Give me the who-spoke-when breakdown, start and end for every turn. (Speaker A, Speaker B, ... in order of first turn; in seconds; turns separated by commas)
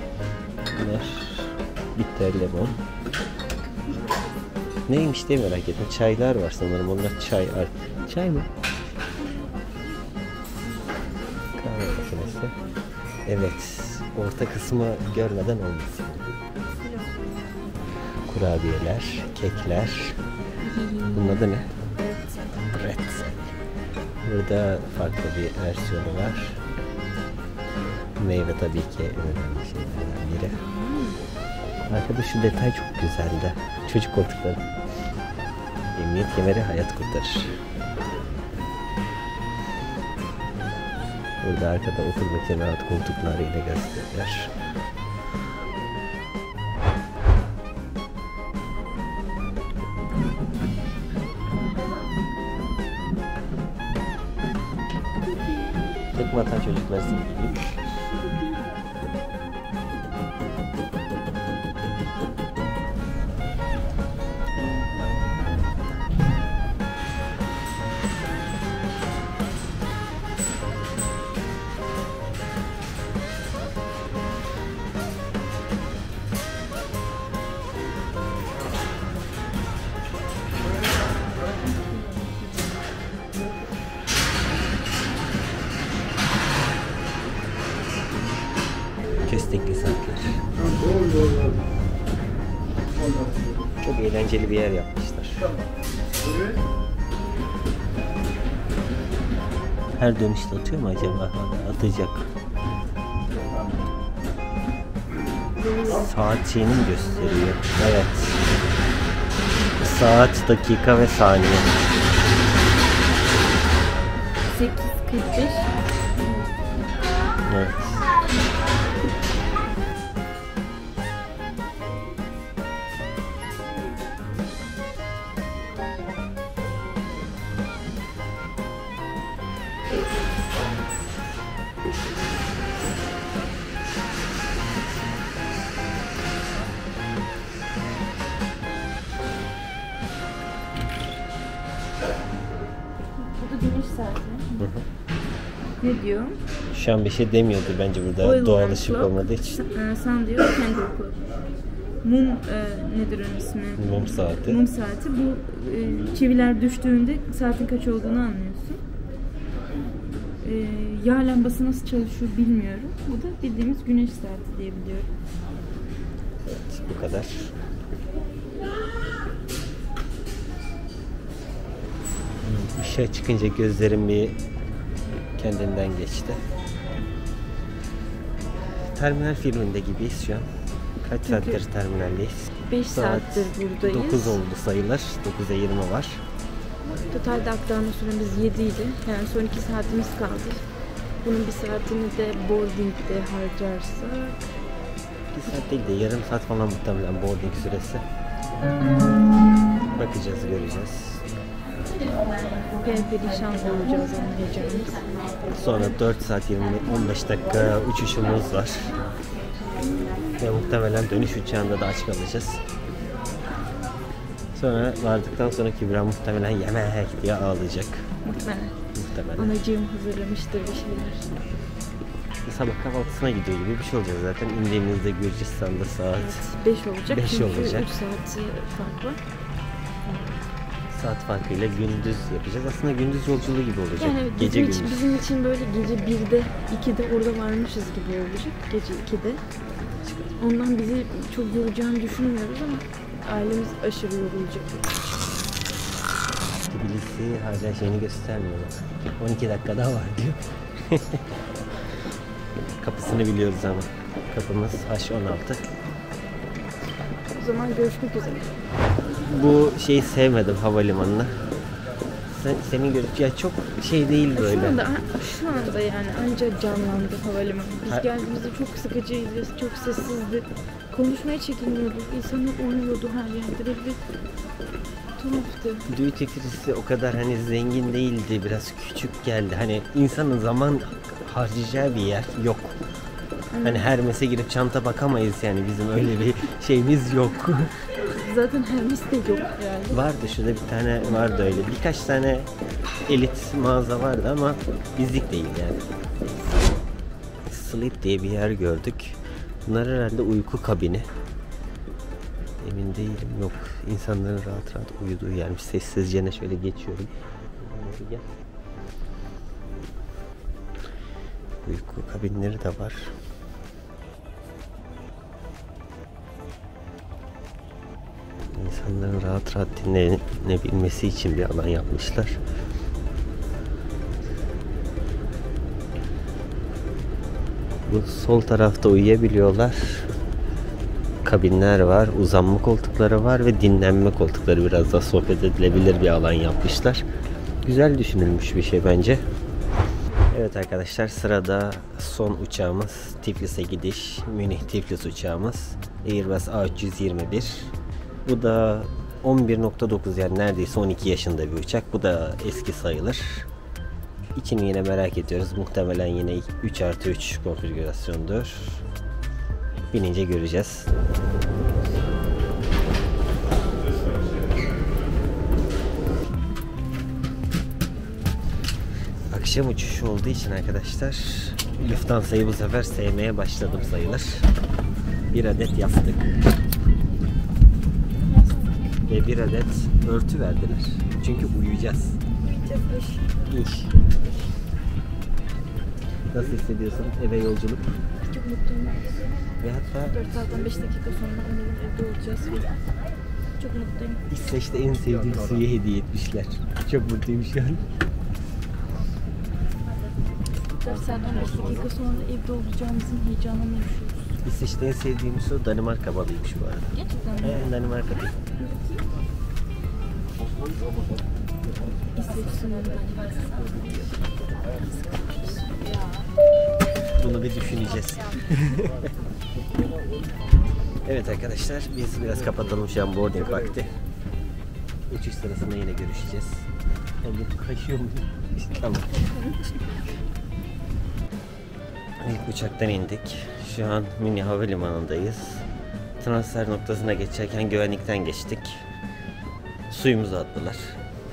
Speaker A: 0.7-2.8, Speaker A: 4.9-8.5, Speaker B: 10.8-12.7, Speaker A: 11.6-12.6, Speaker A: 13.2-16.4, Speaker B: 16.8-17.3, Speaker A: 18.2-20.2, Speaker B: 20.6-21.4, Speaker A: 21.1-21.7, Speaker A: 22.7-23.5, Speaker A: 24.2-26.6, Speaker A: 28.2-30.6, Speaker B: 30.6-31.2, Speaker A: 31.9-34.6, Speaker A: 35.9-37.5, Speaker A: 41.4-44.5, Speaker A: 56.1-57.6, Speaker B: 81.8-82.5, Speaker A: 89.2-90.5, Speaker A: 93.8-95.5, Speaker A: 100.0-102.3, Speaker A: 105.9-108.4, Speaker A: 109.8-111.8, Speaker B: 114.4-116.6, Speaker A: 117.5-118.0, Speaker B: 143.2-144.7, Speaker A: 144.6-144.8, Speaker B: 145.8-146.4, Speaker A: 146.7-149.6, Speaker B: 148.2-151.3, Speaker B: 152.0-158.8, Speaker A: 153.8-154.6, Speaker B: 160.4-165.1, Speaker A: 166.4-167.5, Speaker A: 172.4-174.4, Speaker A: 175.4-176.4, Speaker A: 178.9-180.5, Speaker A: 181.0-186.2, Speaker B: 181.2-181.6, Speaker B: 182.7-184.4, Speaker B: 187.1-190.7, Speaker B: 191.2-194.5, Speaker A: 195.3-198.0, Speaker A: 200.0-201.2, Speaker B: 202.7-205.1, Speaker A: 205.5-208.9, Speaker B: 209.9-210.2, Speaker A: 210.4-212.6, Speaker A: 214.5-218.1, Speaker B: 218.2-218.8, Speaker A: 218.9-219.5, Speaker B: 219.3-221.3, Speaker A: 222.4-226.4, Speaker B: 226.1-229.2, Speaker A: 227.1-227.9, Speaker A: 230.9-235.2, Speaker B: 234.0-239.4, Speaker A: 239.8-240.3, Speaker B: 240.4-244.9, Speaker A: 246.7-251.2, Speaker A: 252.5-255.7, Speaker B: 257.3-258.5, Speaker A: 259.2-261.4, Speaker A: 262.3-264.9, Speaker B: 264.3-274.0, Speaker B: 275.2-275.9, Speaker A: 275.9-282.8, Speaker B: 283.5-283.9, Speaker A: 283.6-287.7, Speaker B: 288.0-290.1, Speaker A: 289.9-292.5, Speaker A: 293.0-295.8, Speaker A: 297.5-301.1, Speaker A: 302.6-308.3, Speaker A: 311.6-313.1, Speaker A: 318.5-322.4, Speaker A: 327.9-330.1, Speaker A: 331.2-337.0, Speaker A: 337.6-339.2, Speaker A: 340.3-347.7, Speaker A: 348.2-353.5, Speaker A: 354.4-358.8, Speaker A: 359.9-360.9, Speaker A: 369.3-374.5, Speaker A: 375.3-376.4, Speaker A: 379.1-382.2, Speaker B: 382.4-383.2, Speaker A: 383.5-384.0, Speaker A: 386.3-388.0, Speaker B: 388.2-389.2, Speaker A: 389.6-390.4, Speaker B: 390.1-392.9, Speaker B: 393.5-394.2, Speaker A: 394.3-397.8, Speaker B: 400.8-404.3, Speaker A: 404.4-408.4, Speaker B: 406.9-407.7, Speaker B: 408.6-409.0, Speaker B: 412.1-414.2, Speaker B: 414.7-415.8, Speaker A: 417.1-419.1, Speaker A: 421.0-423.9, Speaker A: 425.1-426.7, Speaker A: 427.2-429.7, Speaker B: 429.1-429.5, Speaker A: 432.2-435.6, Speaker A: 436.2-438.8, Speaker A: 439.9-441.0